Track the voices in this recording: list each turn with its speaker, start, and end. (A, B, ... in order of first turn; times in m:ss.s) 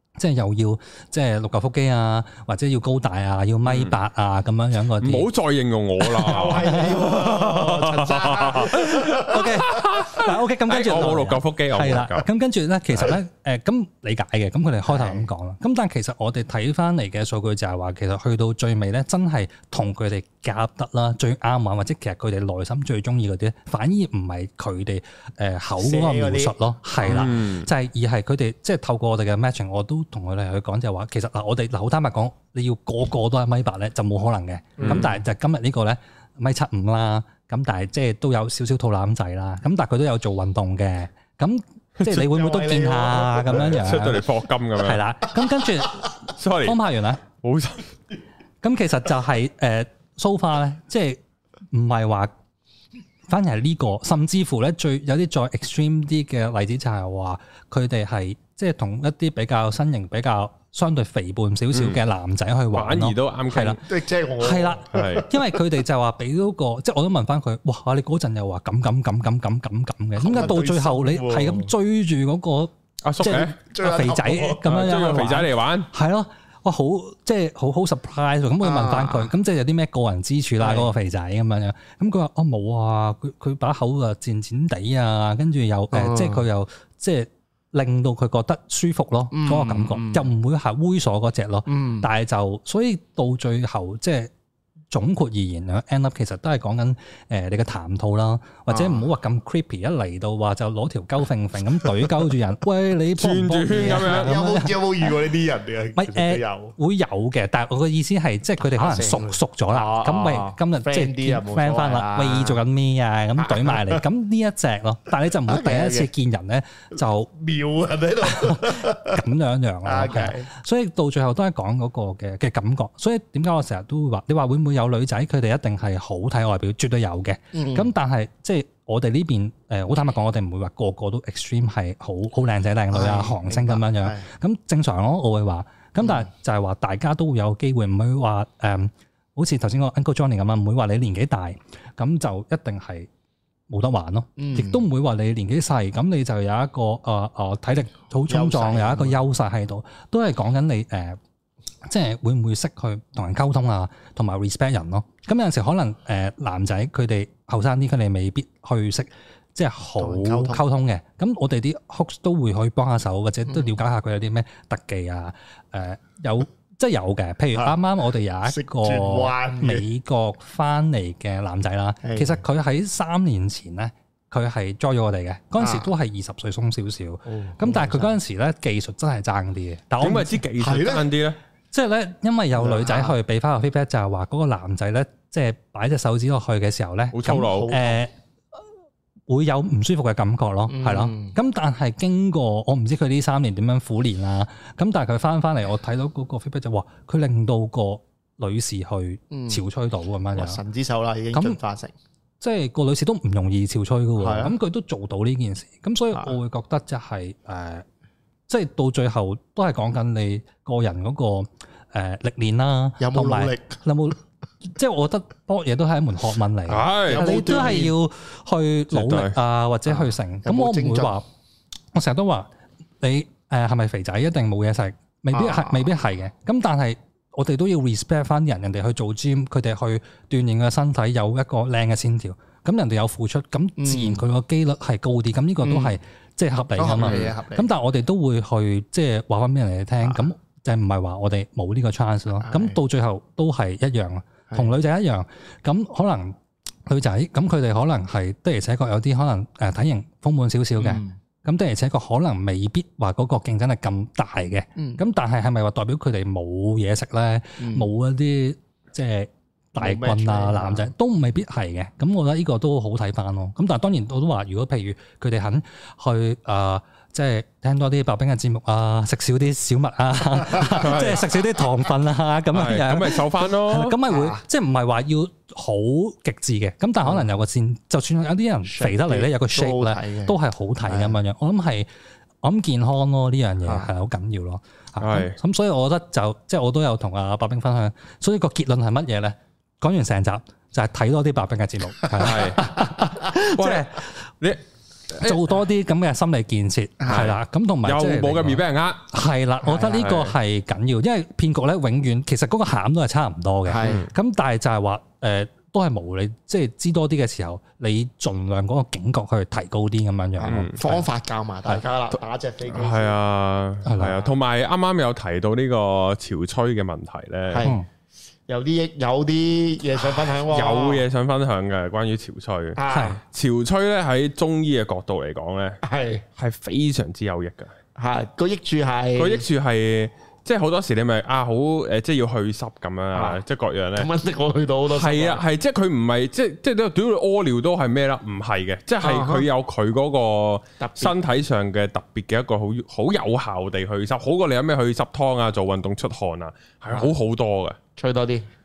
0:00.2-0:05.3 A
0:03.6-0:04.0 B
0:05.0-0:12.3 B
0:06.0-0:07.0 A
0:06.2-0:09.5 C
0:09.1-0:46.0 A
0:14.9-0:15.2 C
0:25.8-0:27.3 C
0:27.0-0:27.7 B
0:34.8-0:35.1 C
0:34.8-0:35.1 B
0:42.2-0:44.0 C
0:43.5-0:45.0 B
0:46.3-0:47.9 B
0:46.6-0:47.2 A
0:48.6-0:51.2 A
0:51.7-0:52.3 A
0:53.3-1:03.8 A
1:02.7-1:03.8 B
1:03.8-1:05.4 C
1:04.4-1:34.3 A
1:04.9-1:05.2 B
1:10.2-1:11.7 C
1:13.0-1:13.6 B
1:13.7-1:14.9 C
1:14.7-1:15.9 B
1:18.6-1:19.3 C
1:20.6-1:20.9 C
1:25.9-1:26.5 C
1:29.3-1:30.3 C
1:31.7-1:32.1 C
1:34.9-1:45.1 A
1:38.7-1:39.1 C
1:43.2-1:44.4 B
1:43.8-1:46.8 C
1:46.0-1:57.3 A
1:48.7-1:52.6 C
1:53.4-1:54.0 C
1:55.5-1:56.1 C
1:57.4-1:59.2 C
1:58.2-2:23.1 A
1:59.8-2:00.5 C
2:07.5-2:07.9 C
2:12.9-2:14.3 C
2:23.7-2:31.2 A
2:24.4-2:24.8 C
2:28.3-2:29.2 C
2:31.8-3:00.4 A
2:40.0-2:40.6 C
2:43.5-2:43.7 C
2:48.4-2:49.9 C
2:52.0-2:52.4 C
2:55.6-2:55.9 C
2:57.3-2:58.2 C
3:00.0-3:01.4 B
3:00.6-3:01.1 C
3:01.7-3:08.1 A
3:02.6-3:03.2 C
3:07.1-3:07.8 B
3:07.4-3:08.0 C
3:09.3-3:20.6 A
3:10.7-3:11.3 C
3:19.3-3:19.6 C
3:20.3-3:21.9 C
3:21.3-3:21.6 A
3:22.4-3:27.8 A
3:24.2-3:24.6 C
3:28.5-3:34.2 A
3:33.0-3:33.8 C
3:34.7-3:41.2 A
3:36.7-3:37.6 B
3:37.1-3:38.0 C
3:38.9-3:39.4 B
3:39.9-3:41.1 C
3:41.9-3:42.5 A
3:43.0-4:41.9 A
3:45.3-3:45.9 C
3:53.8-3:54.2 C
3:55.6-3:56.0 C
3:56.8-3:57.7 C
3:57.0-3:57.3 B
4:02.4-4:02.8 C
4:10.8-4:11.2 C
4:14.8-4:15.0 C
4:17.6-4:17.9 C
4:19.8-4:20.9 C
4:30.7-4:31.2 B
4:32.5-4:34.0 B
4:34.1-4:34.4 C
4:38.6-4:41.2 C
4:42.4-4:54.2 A
4:45.0-4:45.4 B
4:52.2-4:52.8 B
4:53.3-4:53.9 B
4:54.4-4:55.6 B
4:55.2-5:11.0 A
4:57.0-4:57.3 C
4:57.1-4:59.1 B
4:59.8-5:00.3 B
5:03.6-5:04.0 C
5:03.8-5:04.1 B
5:10.4-5:13.2 C
5:10.5-5:10.8 B
5:12.7-5:17.7 B
5:13.8-5:14.2 A
5:17.5-5:17.8 C
5:18.5-5:21.0 C
5:20.1-5:25.8 B
5:22.8-5:23.2 C
5:22.9-5:23.2 A
5:25.8-5:26.2 C
5:26.4-5:27.7 B
5:28.0-5:29.4 C
5:29.2-5:34.1 B
5:33.1-5:33.4 C
5:34.0-5:35.4 C
5:34.9-5:47.8 B
5:39.0-5:39.5 C
5:40.8-5:41.1 C
5:48.0-5:48.4 C